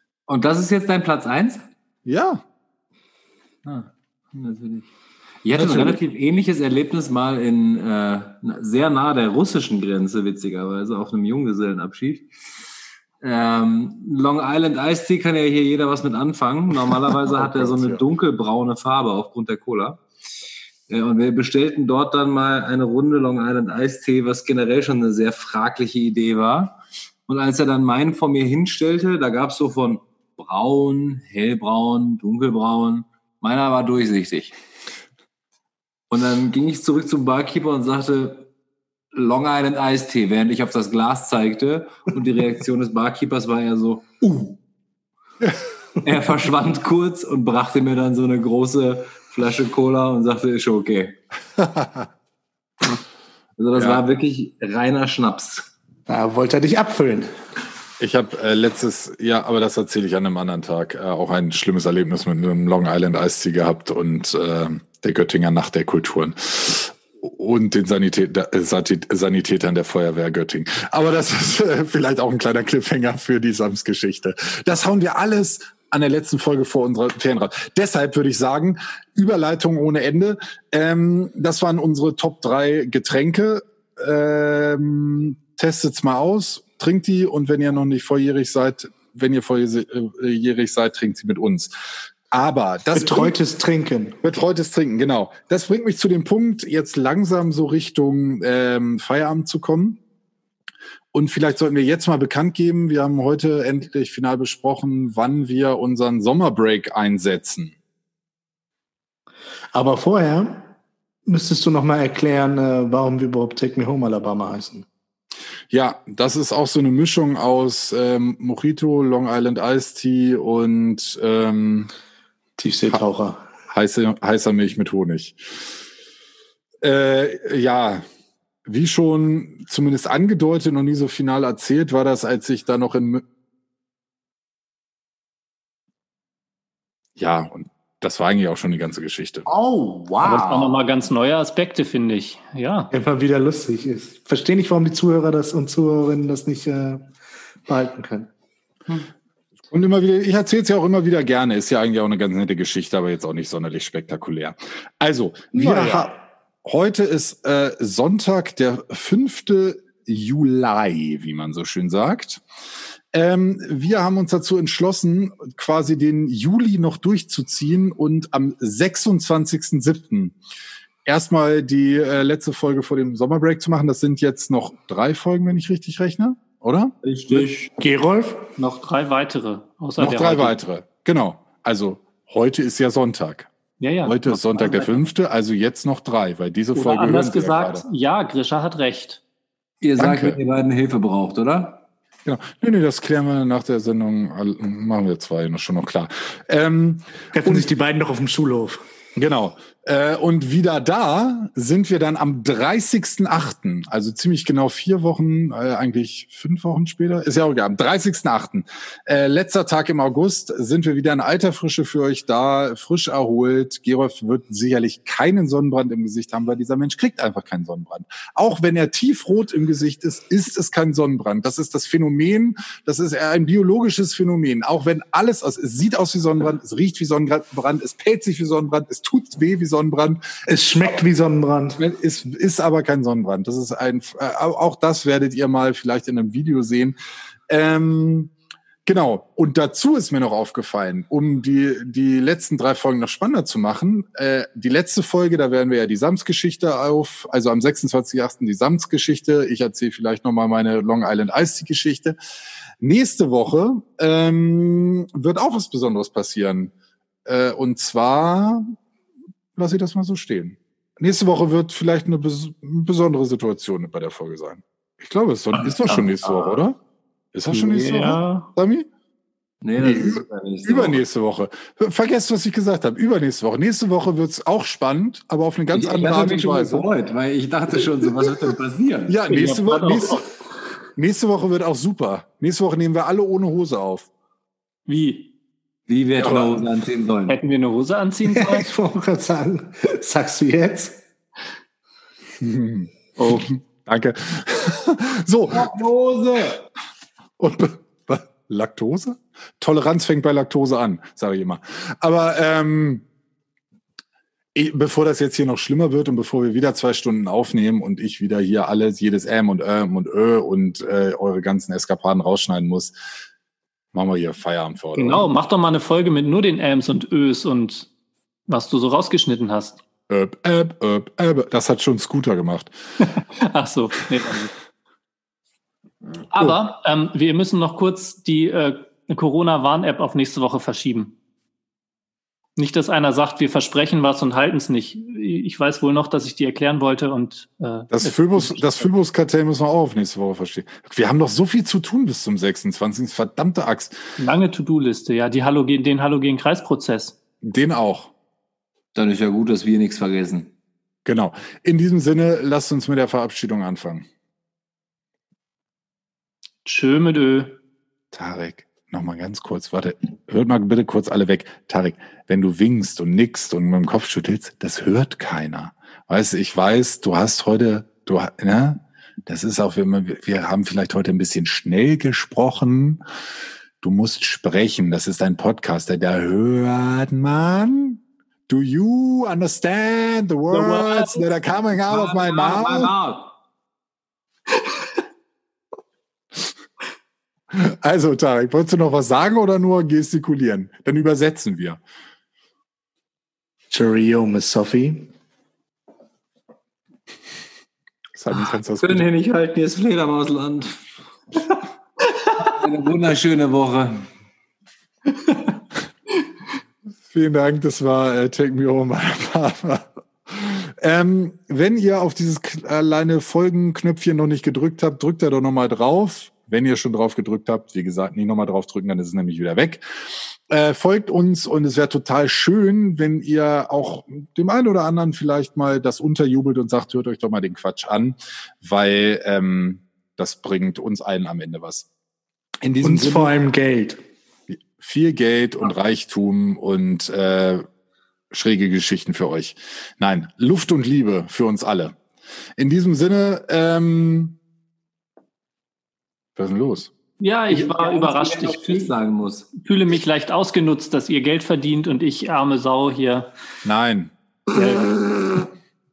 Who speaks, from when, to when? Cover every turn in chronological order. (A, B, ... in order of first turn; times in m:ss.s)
0:00.3-0:01.6 A
0:02.0-0:02.4 B
0:03.6-0:04.9 A
0:05.4-0:12.3 A
0:05.5-0:06.0 B
0:13.2-0:20.0 A
0:17.3-0:18.0 B
0:20.9-0:34.6 A
0:36.1-0:38.5 A
0:39.1-0:44.6 A
0:46.0-0:51.2 A
0:51.6-0:52.1 B
0:53.6-0:55.7 A
0:53.7-0:54.0 B
0:56.1-0:57.3 C
0:58.0-1:31.7 B
1:32.3-1:33.4 B
1:32.9-1:34.2 C
1:34.2-1:40.0 B
1:41.1-1:47.8 B
1:49.7-1:50.7 C
1:51.2-1:54.8 C
1:55.7-2:01.9 B
2:02.6-2:03.4 C
2:03.7-2:05.6 B
2:06.8-2:08.0 B
2:08.6-2:13.2 B
2:17.2-2:19.5 B
2:19.4-2:20.8 A
2:20.2-2:22.9 D
2:22.9-2:27.1 C
2:27.6-2:28.3 C
2:29.7-2:42.4 B
2:35.5-2:36.1 C
2:43.1-2:50.4 B
2:51.0-2:57.4 B
2:57.0-2:57.7 A
2:57.8-2:58.5 C
2:58.6-3:00.6 D
3:00.0-3:03.5 B
3:03.8-3:04.9 D
3:04.0-3:07.8 B
3:06.7-3:09.2 D
3:09.8-3:11.8 A
3:10.0-3:10.4 B
3:12.2-3:17.6 B
3:17.3-3:18.8 C
3:19.2-3:50.4 B
3:50.5-3:51.8 C
3:51.8-3:57.0 B
3:57.5-3:58.3 B
3:58.8-4:12.2 B
4:12.8-4:16.7 B
4:17.2-4:18.7 B
4:19.6-4:26.8 B
4:25.6-4:26.6 A
4:27.3-4:28.9 B
4:27.5-4:28.5 D
4:29.6-4:31.0 A
4:29.8-4:36.9 B
4:35.7-4:39.2 A
4:39.1-4:40.2 B
4:39.3-4:40.3 D
4:41.0-4:44.1 B
4:44.9-4:45.3 D
4:45.9-4:47.4 A
4:46.2-4:46.6 B
4:47.3-4:48.7 D
4:48.3-4:51.0 C
4:52.4-4:55.7 B
4:53.2-4:53.5 D
4:55.5-4:56.6 A
4:57.4-5:03.0 B
5:04.5-5:12.9 B
5:13.9-5:15.3 B
5:15.0-5:17.9 D
5:18.5-5:19.8 D
5:20.1-5:22.7 B
5:23.0-5:24.5 D
5:26.3-5:31.2 D
5:32.6-5:38.9 D
5:37.9-5:44.0 B
5:44.2-5:47.2 D
5:47.4-5:48.1 B
5:48.9-5:50.5 A
5:51.0-5:54.0 B
5:56.6-5:57.6 D
5:58.1-6:13.0 B
6:13.8-6:22.9 B
6:20.5-6:21.2 D
6:21.8-6:23.3 A
6:27.5-6:31.8 B
6:33.7-6:35.1 C
6:38.2-6:39.1 B
6:38.4-6:40.9 A
6:42.4-6:44.1 A
6:47.1-7:11.9 B
7:12.6-7:13.3 B
7:12.8-7:14.0 C
7:14.5-7:17.6 B
7:18.3-7:22.0 B
7:22.6-7:24.4 B
7:26.4-7:26.9 B
7:27.2-7:28.9 D
7:27.5-7:29.5 A
7:29.6-7:33.3 D
7:33.6-7:34.1 B
7:34.5-7:35.0 D